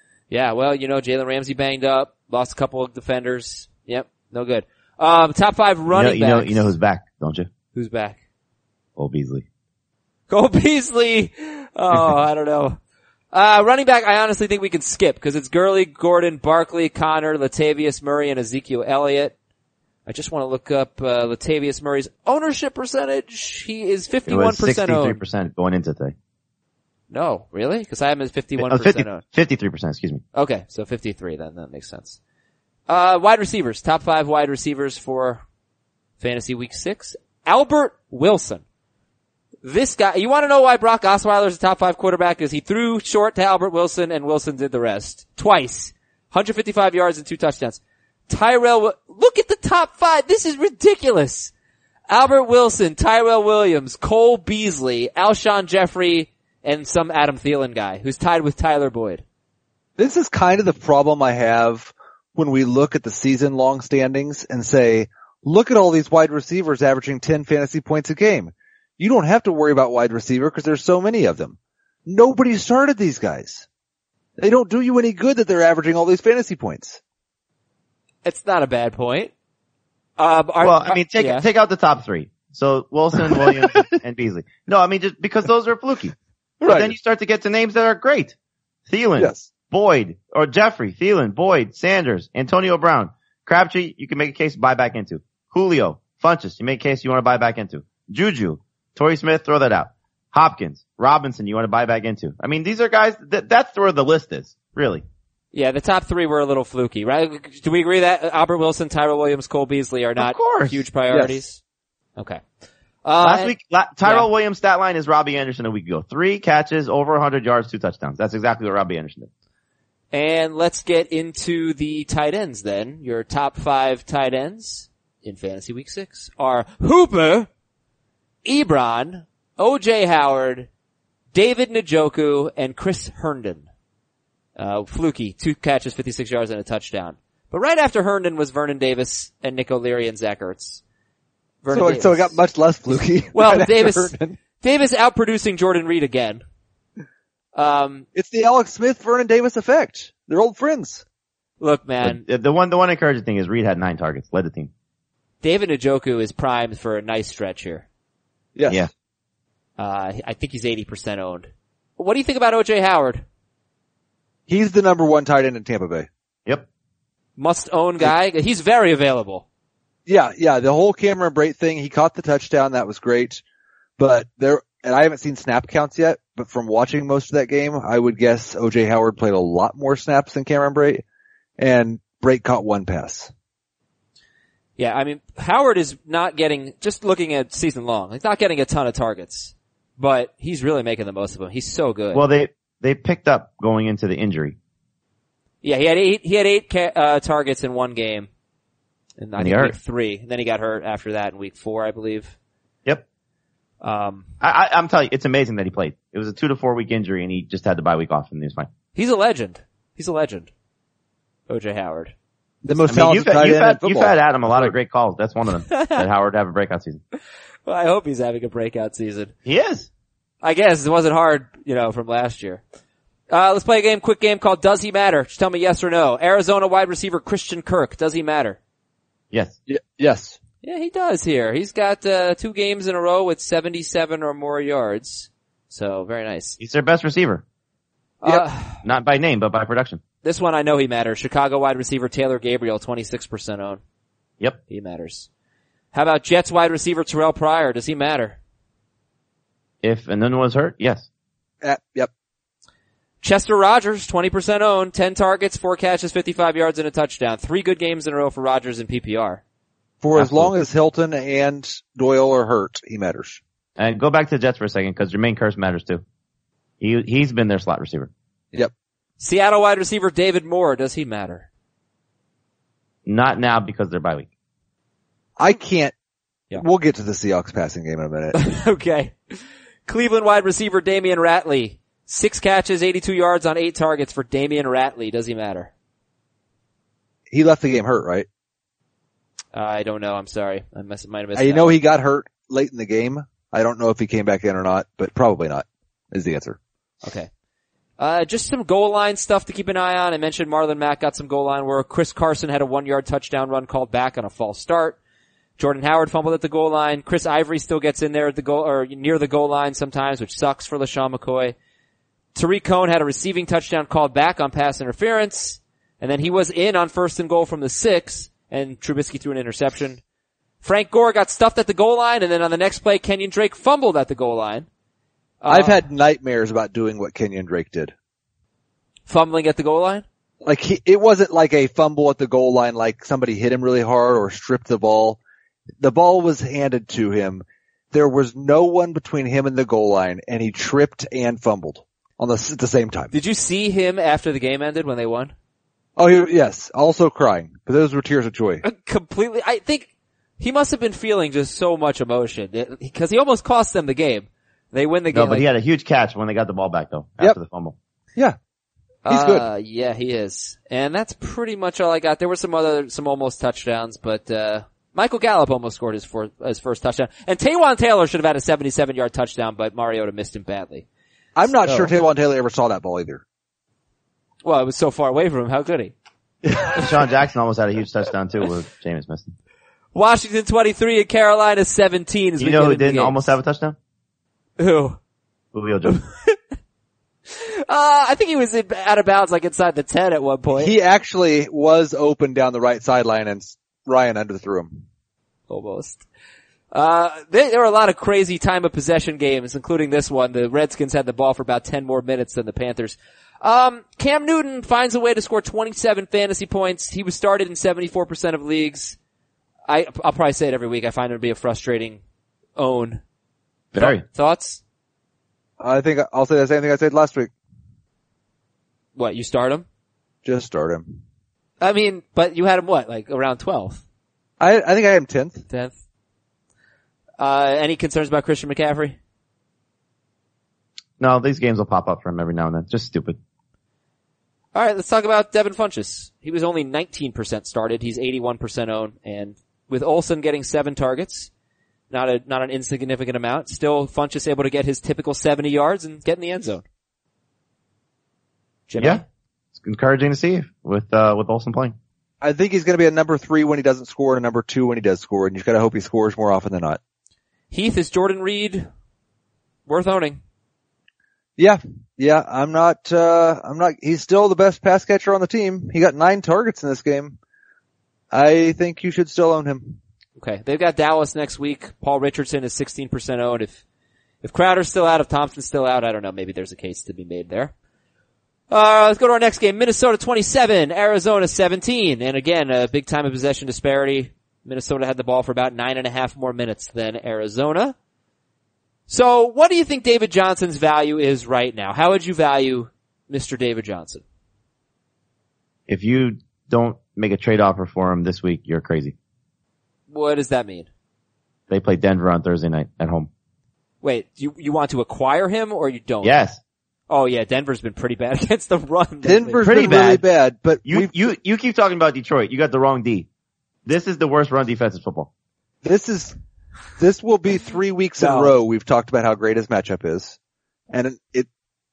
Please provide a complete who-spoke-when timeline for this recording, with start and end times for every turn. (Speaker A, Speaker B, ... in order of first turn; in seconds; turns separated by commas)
Speaker A: 0.3-6.7, Speaker B: 5.9-7.5, Speaker A: 7.7-8.2, Speaker B: 9.0-9.4, Speaker A: 10.3-12.8, Speaker A: 13.3-19.3, Speaker A: 20.1-25.2, Speaker B: 24.3-26.1, Speaker A: 27.1-29.2, Speaker B: 28.6-30.2, Speaker A: 30.3-32.2, Speaker A: 32.9-35.4, Speaker A: 36.2-38.6, Speaker A: 39.6-51.5, Speaker A: 52.1-59.2, Speaker C: 60.0-73.7, Speaker C: 74.4-77.0, Speaker A: 78.2-79.3, Speaker A: 80.2-81.5, Speaker B: 80.6-88.3, Speaker C: 83.4-83.8, Speaker C: 86.6-86.9, Speaker B: 88.9-105.0, Speaker C: 89.2-89.5, Speaker A: 105.5-111.6, Speaker B: 110.2-110.8, Speaker C: 111.1-111.4, Speaker A: 112.2-112.4, Speaker A: 113.0-114.3, Speaker B: 113.2-119.3, Speaker A: 120.1-127.5, Speaker A: 128.4-130.7, Speaker A: 131.3-133.7, Speaker A: 134.6-140.8, Speaker A: 141.6-142.4, Speaker C: 141.7-144.4, Speaker A: 143.3-146.4, Speaker A: 147.5-148.0, Speaker C: 148.1-151.0, Speaker A: 151.6-152.2, Speaker B: 152.0-154.7, Speaker A: 155.4-157.8, Speaker C: 158.6-158.9, Speaker A: 159.8-163.2, Speaker C: 164.5-166.1, Speaker A: 167.4-169.4, Speaker C: 170.1-173.4, Speaker C: 174.0-181.0, Speaker C: 181.6-183.3, Speaker A: 184.8-192.2, Speaker B: 192.1-194.6, Speaker A: 195.6-198.3, Speaker A: 199.2-202.3, Speaker B: 199.4-199.8, Speaker A: 203.8-204.2, Speaker B: 204.4-208.7, Speaker A: 208.9-210.5, Speaker A: 211.5-212.1, Speaker C: 212.6-214.7, Speaker B: 212.9-217.0, Speaker A: 215.7-216.0, Speaker A: 217.7-219.3, Speaker B: 219.4-219.9, Speaker A: 220.4-222.6, Speaker A: 223.3-228.6, Speaker C: 229.7-230.4, Speaker A: 230.6-236.6, Speaker B: 236.6-237.4, Speaker A: 238.2-238.8, Speaker B: 238.8-240.0, Speaker A: 240.2-243.8, Speaker A: 244.7-245.3, Speaker A: 245.9-248.4, Speaker B: 249.8-251.1, Speaker C: 251.6-252.1, Speaker A: 253.2-259.4, Speaker C: 260.0-263.4, Speaker B: 260.1-260.5, Speaker B: 263.8-266.0, Speaker B: 266.8-268.1, Speaker A: 269.2-271.5, Speaker B: 273.1-274.3, Speaker C: 275.4-275.9, Speaker C: 276.6-278.4, Speaker A: 278.3-285.7, Speaker C: 287.3-288.3, Speaker A: 289.5-291.8, Speaker C: 291.4-296.6, Speaker A: 297.0-297.3, Speaker A: 298.0-305.0, Speaker A: 305.6-311.5, Speaker A: 312.3-320.0, Speaker A: 320.6-324.7, Speaker A: 325.4-325.8, Speaker C: 325.5-327.9, Speaker A: 329.1-330.0, Speaker C: 330.4-335.2, Speaker C: 335.8-343.1, Speaker A: 343.1-345.3, Speaker C: 346.0-348.6, Speaker A: 348.6-349.9, Speaker A: 350.4-355.4, Speaker B: 355.1-357.7, Speaker A: 359.0-370.9, Speaker C: 359.1-359.4, Speaker C: 371.4-373.2, Speaker A: 371.6-371.9, Speaker A: 374.4-375.9, Speaker B: 376.7-379.3, Speaker A: 379.9-383.4, Speaker B: 382.4-383.8, Speaker A: 384.6-385.0, Speaker B: 385.5-386.0, Speaker A: 385.9-386.4, Speaker A: 387.3-390.7, Speaker C: 390.5-394.8, Speaker A: 395.5-396.0, Speaker A: 396.7-409.0, Speaker A: 409.7-412.0, Speaker A: 412.6-413.0, Speaker B: 413.7-414.0, Speaker A: 413.8-414.6, Speaker C: 415.6-417.3, Speaker A: 418.9-419.6, Speaker C: 420.2-421.0, Speaker A: 421.6-423.8, Speaker C: 424.4-425.4, Speaker A: 425.5-425.8, Speaker A: 427.2-429.0, Speaker B: 431.0-433.2, Speaker A: 434.5-441.3, Speaker A: 441.9-446.6, Speaker A: 448.7-449.0, Speaker B: 448.8-449.0, Speaker B: 449.6-451.8, Speaker C: 452.2-456.8, Speaker A: 457.5-458.7, Speaker A: 459.7-460.2, Speaker C: 461.4-467.2, Speaker C: 468.1-469.8, Speaker A: 470.2-473.6, Speaker A: 474.2-477.5, Speaker A: 478.5-487.7, Speaker A: 488.9-494.0, Speaker B: 495.7-498.9, Speaker A: 499.9-500.7, Speaker B: 501.5-503.1, Speaker A: 503.8-506.1, Speaker B: 506.0-506.4, Speaker A: 506.9-509.6, Speaker C: 509.0-511.1, Speaker B: 509.4-510.0, Speaker B: 510.6-513.1, Speaker B: 513.6-515.1, Speaker C: 515.6-516.1, Speaker C: 516.8-520.2, Speaker A: 518.0-518.3, Speaker C: 520.7-521.3